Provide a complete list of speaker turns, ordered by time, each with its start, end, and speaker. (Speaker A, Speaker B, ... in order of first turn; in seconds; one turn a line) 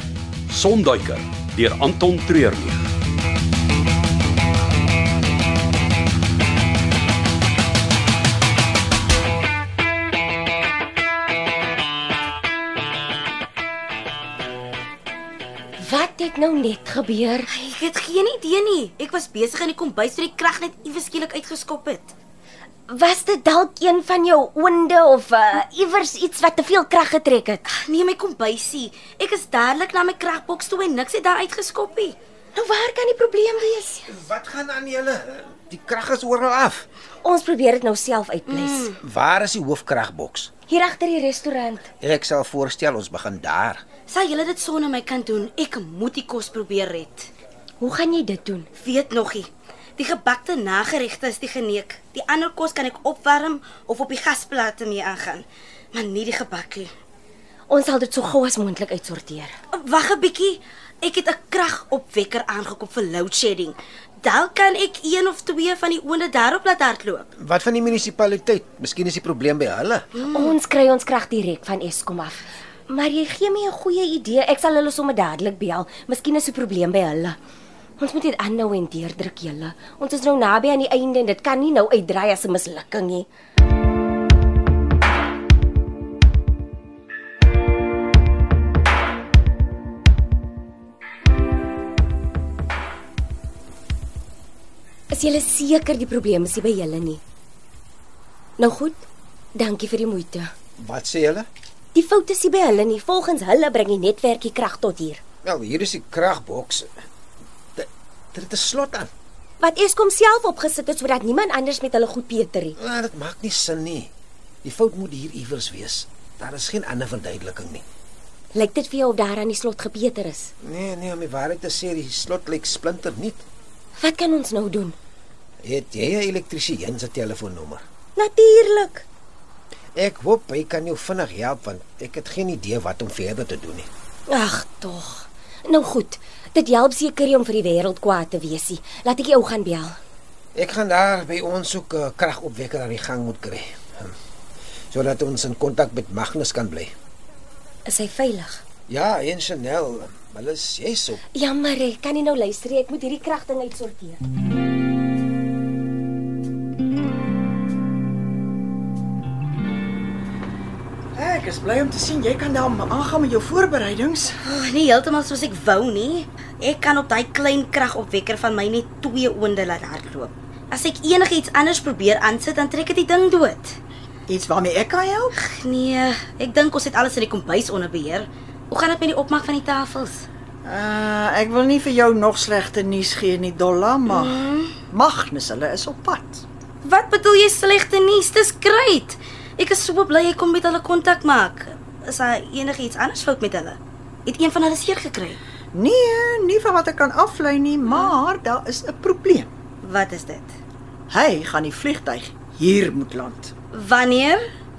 Speaker A: 0.5-2.8
Speaker B: 15.8-17.5
Speaker C: 17.5-22.1
Speaker B: 22.9-27.6
Speaker C: 27.7-32.2
Speaker B: 32.5-34.0
Speaker D: 34.0-36.9
Speaker B: 37.2-38.9
Speaker C: 38.5-38.9
Speaker D: 39.0-40.5
Speaker B: 40.7-41.9
Speaker D: 42.0-43.8
Speaker C: 44.1-47.3
Speaker B: 47.8-48.7
Speaker C: 48.8-56.9
Speaker B: 57.7-59.5
Speaker C: 59.7-67.3
Speaker D: 67.4-70.0
Speaker C: 70.2-70.6
Speaker B: 70.3-77.3
Speaker B: 78.0-83.3
Speaker B: 95.1-97.2
Speaker B: 98.6-100.5
Speaker D: 100.8-101.5
Speaker B: 101.9-105.2
Speaker D: 105.4-106.9
Speaker D: 107.8-109.1
Speaker B: 109.6-112.8
Speaker D: 112.8-114.1
Speaker D: 114.6-117.8
Speaker B: 118.5-120.5
Speaker D: 120.6-123.4
Speaker B: 124.0-125.0
Speaker D: 125.6-127.8
Speaker B: 128.2-129.0
Speaker D: 129.9-133.9
Speaker B: 134.3-140.0
Speaker D: 140.5-144.1
Speaker D: 144.9-146.9
Speaker B: 147.9-148.6
Speaker D: 148.9-151.2
Speaker B: 151.3-154.2
Speaker E: 161.1-164.3
Speaker C: 164.4-173.8
Speaker E: 174.3-175.3
Speaker C: 175.3-180.2
Speaker E: 180.6-186.4
Speaker C: 184.1-184.8
Speaker C: 186.8-195.4
Speaker E: 195.7-199.5
Speaker C: 199.8-200.6
Speaker E: 201.1-203.5
Speaker C: 203.7-204.4